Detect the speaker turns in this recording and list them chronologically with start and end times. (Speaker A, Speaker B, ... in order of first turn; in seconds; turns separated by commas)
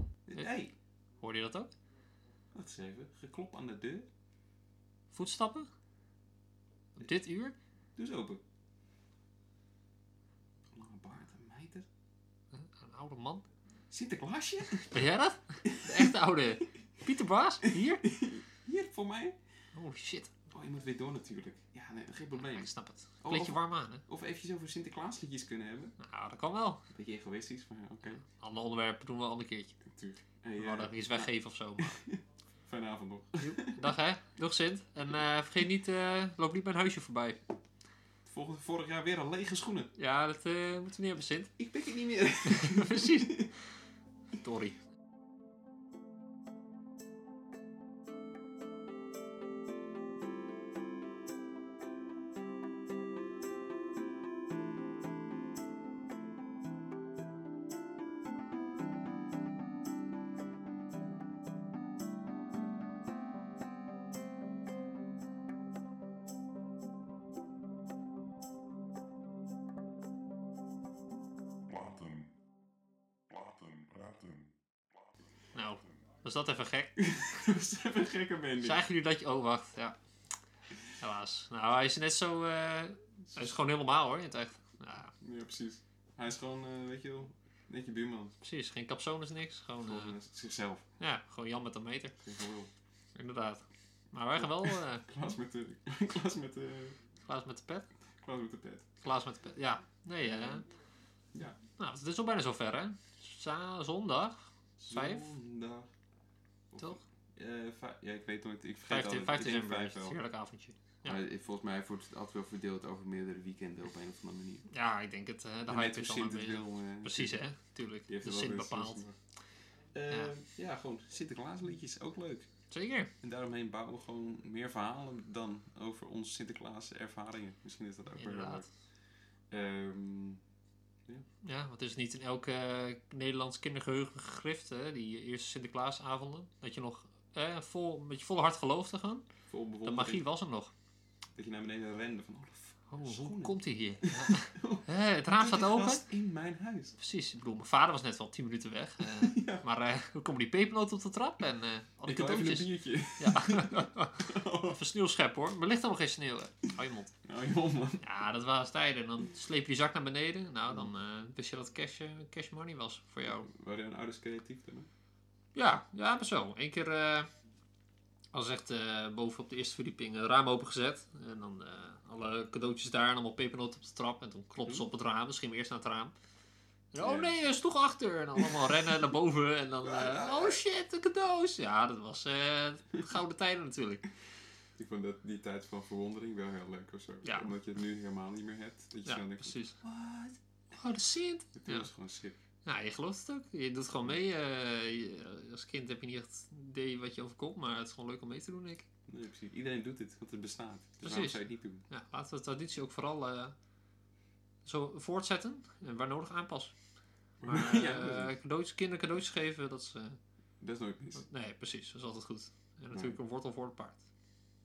Speaker A: 0.3-0.7, Speaker B: 1.2-1.7, Speaker A: 2.5-4.1, Speaker B: 5.1-5.7, Speaker B: 7.0-7.5, Speaker A: 8.0-8.4, Speaker A: 10.7-11.9, Speaker B: 12.5-13.4, Speaker A: 13.9-15.1, Speaker B: 14.9-18.1, Speaker A: 15.6-16.1, Speaker A: 17.6-19.4, Speaker B: 19.8-20.3, Speaker A: 20.5-22.7, Speaker B: 22.6-24.0, Speaker A: 23.2-25.9, Speaker B: 26.0-26.8, Speaker A: 26.9-28.2, Speaker B: 28.2-29.8, Speaker A: 29.8-33.9, Speaker B: 30.6-32.0, Speaker B: 33.4-37.4, Speaker A: 38.2-39.9, Speaker B: 40.0-41.5, Speaker A: 41.6-43.5, Speaker B: 42.5-43.5, Speaker B: 44.4-44.8, Speaker C: 71.7-72.3, Speaker C: 73.3-74.5, Speaker B: 75.5-77.0, Speaker A: 77.0-78.8, Speaker B: 78.6-80.0, Speaker B: 81.0-85.1, Speaker A: 85.2-88.3, Speaker B: 88.4-90.1, Speaker A: 89.8-90.9, Speaker B: 91.0-92.2, Speaker A: 92.2-92.7, Speaker B: 93.2-93.6, Speaker B: 94.1-95.0, Speaker A: 94.4-97.0, Speaker B: 97.2-97.9, Speaker A: 98.2-98.9, Speaker B: 99.0-100.7, Speaker A: 100.2-100.6, Speaker B: 101.8-105.3, Speaker A: 104.8-105.9, Speaker A: 106.7-110.2, Speaker B: 108.9-111.2, Speaker A: 111.0-114.7, Speaker B: 114.7-119.0, Speaker A: 115.7-117.4, Speaker A: 118.1-119.2, Speaker A: 119.9-122.5, Speaker B: 122.7-123.1, Speaker A: 123.2-128.7, Speaker B: 128.2-128.7, Speaker A: 129.5-130.4, Speaker B: 131.4-139.3, Speaker A: 139.5-140.2, Speaker B: 139.8-140.7, Speaker A: 141.3-147.0, Speaker B: 142.9-146.0, Speaker B: 147.0-157.1, Speaker A: 149.0-149.7, Speaker A: 152.0-154.8, Speaker A: 157.2-158.0, Speaker B: 158.0-163.5, Speaker A: 163.2-164.9, Speaker B: 165.5-167.3, Speaker B: 168.3-176.1, Speaker B: 176.9-184.1, Speaker A: 177.0-177.4, Speaker A: 178.4-178.9, Speaker A: 179.8-180.6, Speaker A: 184.8-190.4, Speaker B: 187.2-187.5, Speaker B: 189.0-189.8, Speaker B: 190.7-191.9, Speaker A: 191.5-192.4, Speaker B: 192.7-198.8, Speaker A: 199.1-201.8, Speaker B: 201.0-201.4, Speaker B: 201.9-203.5, Speaker B: 204.7-206.8, Speaker A: 207.4-208.3, Speaker B: 207.4-210.2, Speaker A: 210.6-211.2, Speaker B: 211.2-214.0, Speaker A: 212.9-213.2